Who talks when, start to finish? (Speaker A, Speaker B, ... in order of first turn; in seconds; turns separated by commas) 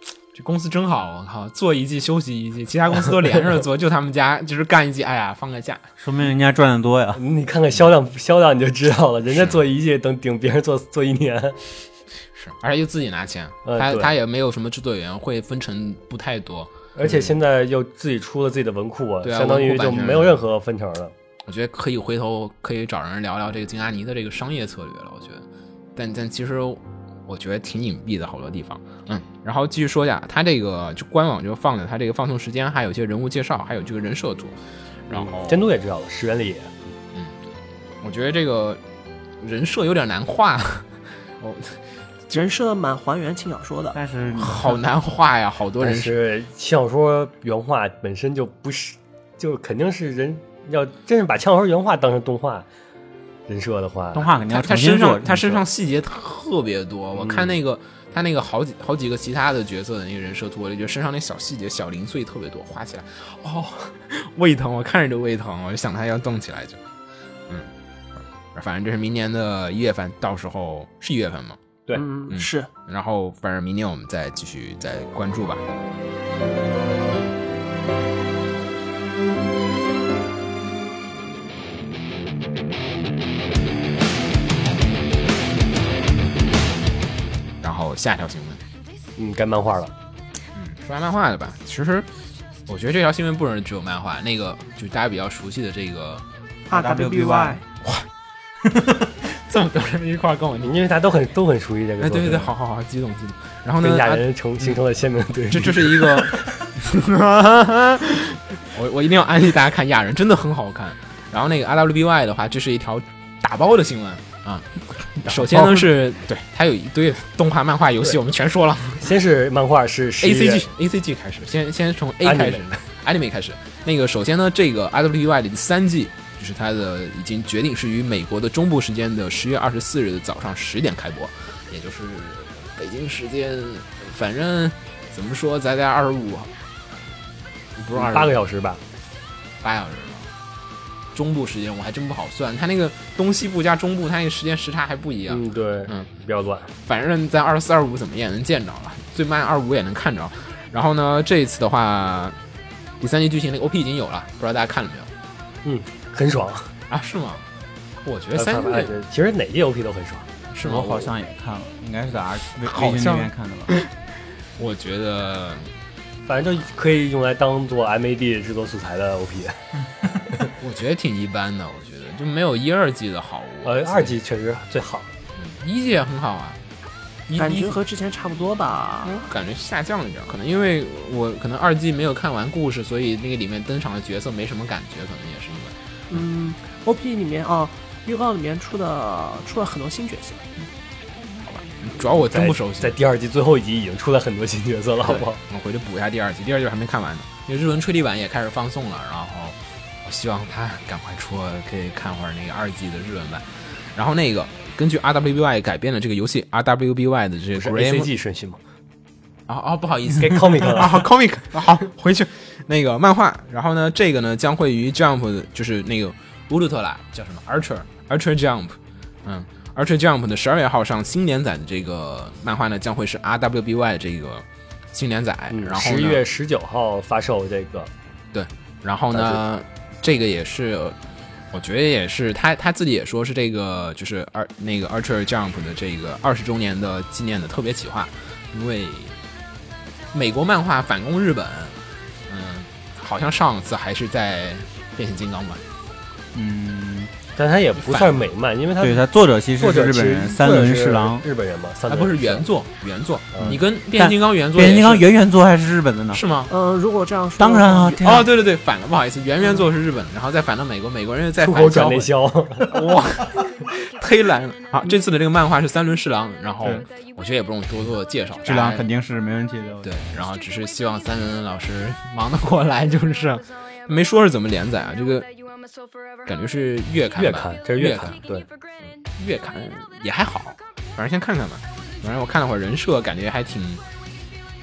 Speaker A: 0.3-5.9, Speaker B: 6.0-7.2, Speaker C: 7.2-11.7, Speaker A: 9.3-9.6, Speaker A: 12.3-17.3, Speaker C: 13.7-14.1, Speaker C: 16.9-21.1, Speaker A: 19.2-20.4, Speaker A: 21.4-34.5, Speaker A: 35.1-35.6, Speaker C: 35.1-36.7, Speaker A: 37.1-37.5, Speaker A: 38.0-38.8, Speaker A: 39.4-41.8, Speaker D: 42.3-44.0, Speaker B: 43.9-44.8, Speaker A: 44.4-46.1, Speaker C: 45.8-52.7, Speaker C: 53.5-54.3, Speaker B: 54.1-55.6, Speaker A: 54.5-66.8, Speaker C: 57.1-57.5, Speaker A: 68.5-71.6, Speaker D: 71.9-72.7, Speaker A: 72.3-75.6, Speaker A: 87.6-88.6, Speaker C: 89.2-89.9, Speaker A: 90.5-92.1, Speaker A: 92.7-96.2, Speaker D: 96.7-97.6, Speaker B: 96.7-97.6, Speaker B: 98.6-99.0, Speaker A: 99.3-100.8, Speaker C: 100.6-102.5, Speaker A: 102.0-104.7, Speaker C: 103.8-106.4, Speaker A: 105.5-114.7, Speaker B: 115.2-115.8, Speaker A: 115.2-119.1, Speaker C: 119.0-120.7, Speaker A: 120.2-136.5, Speaker C: 122.2-122.8, Speaker A: 137.8-138.3, Speaker C: 137.9-138.8, Speaker A: 139.6-140.3, Speaker A: 141.1-146.1, Speaker C: 145.3-146.7, Speaker A: 146.8-152.4, Speaker A: 153.0-155.1, Speaker C: 155.6-156.7, Speaker A: 156.9-157.4, Speaker A: 158.0-158.9, Speaker C: 158.3-160.3, Speaker A: 160.5-161.1, Speaker B: 160.6-163.7, Speaker A: 162.6-163.9, Speaker A: 164.6-165.7, Speaker C: 166.3-169.6, Speaker A: 170.6-174.1, Speaker C: 173.6-175.1, Speaker A: 175.3-176.6, Speaker A: 177.3-177.8, Speaker D: 177.4-179.3, Speaker A: 179.1-185.7, Speaker D: 186.1-190.4, Speaker A: 191.4-192.9, Speaker C: 192.1-195.4, Speaker A: 195.1-208.1, Speaker C: 207.6-208.6, Speaker A: 209.5-226.2, Speaker C: 210.2-211.1, Speaker C: 225.5-227.9, Speaker A: 228.3-231.0, Speaker C: 229.1-229.4, Speaker A: 231.5-239.2, Speaker A: 240.1-245.6, Speaker B: 246.3-247.1, Speaker C: 247.3-249.0, Speaker A: 247.8-248.2, Speaker B: 248.8-251.2, Speaker C: 249.6-252.4, Speaker A: 251.9-255.1, Speaker C: 253.3-253.6, Speaker B: 253.9-256.2, Speaker A: 256.1-256.5, Speaker D: 256.5-258.0, Speaker B: 257.4-258.3, Speaker A: 258.0-268.8, Speaker C: 261.4-262.7, Speaker B: 268.4-269.9, Speaker A: 269.8-275.3, Speaker A: 276.2-278.2, Speaker C: 277.1-278.5, Speaker A: 278.8-283.8